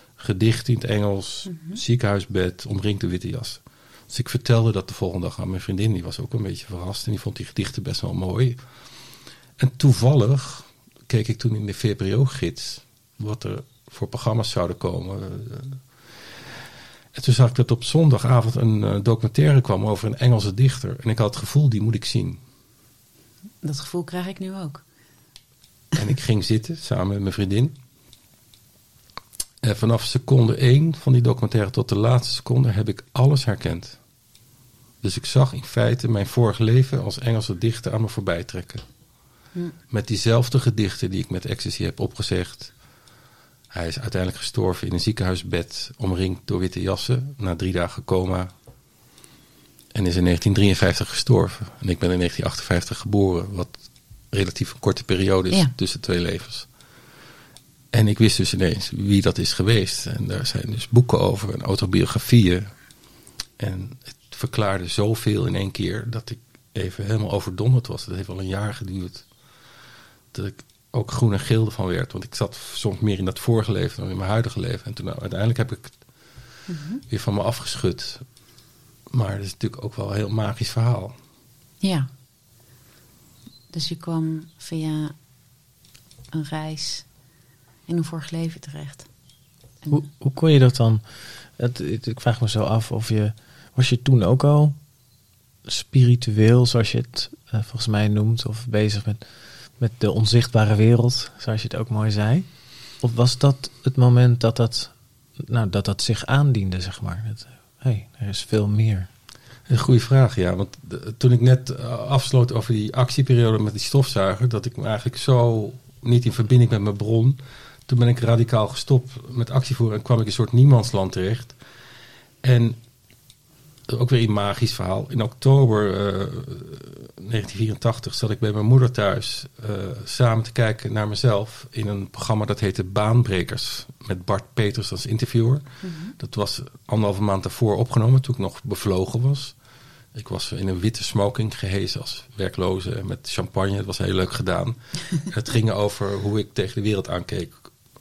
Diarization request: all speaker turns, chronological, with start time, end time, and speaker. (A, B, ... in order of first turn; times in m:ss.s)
0:00.2-0:08.6 A
0:01.5-0:01.8 B
0:09.6-0:15.9 A
0:17.1-0:22.4 A
0:23.6-0:24.8 B
0:25.9-0:27.8 A
0:29.6-0:34.0 A
0:35.0-0:38.8 A
0:39.9-0:42.7 A
0:43.7-0:48.5 A
0:49.9-0:56.7 A
0:57.9-1:02.8 A
1:03.6-1:09.3 A
1:10.3-1:16.0 A
1:16.7-1:17.0 B
1:17.1-1:18.2 A
1:19.1-1:21.2 A
1:21.8-1:22.1 B
1:23.7-1:25.1 B
1:26.3-1:27.1 B
1:27.9-1:29.1 B
1:29.9-1:34.8 C
1:35.6-1:39.2 C
1:39.8-1:49.1 C
1:49.7-2:01.6 A
2:02.4-2:02.8 A
2:03.9-2:15.6 A
2:15.8-2:16.1 B
2:16.2-2:19.6 A
2:20.1-2:27.7 A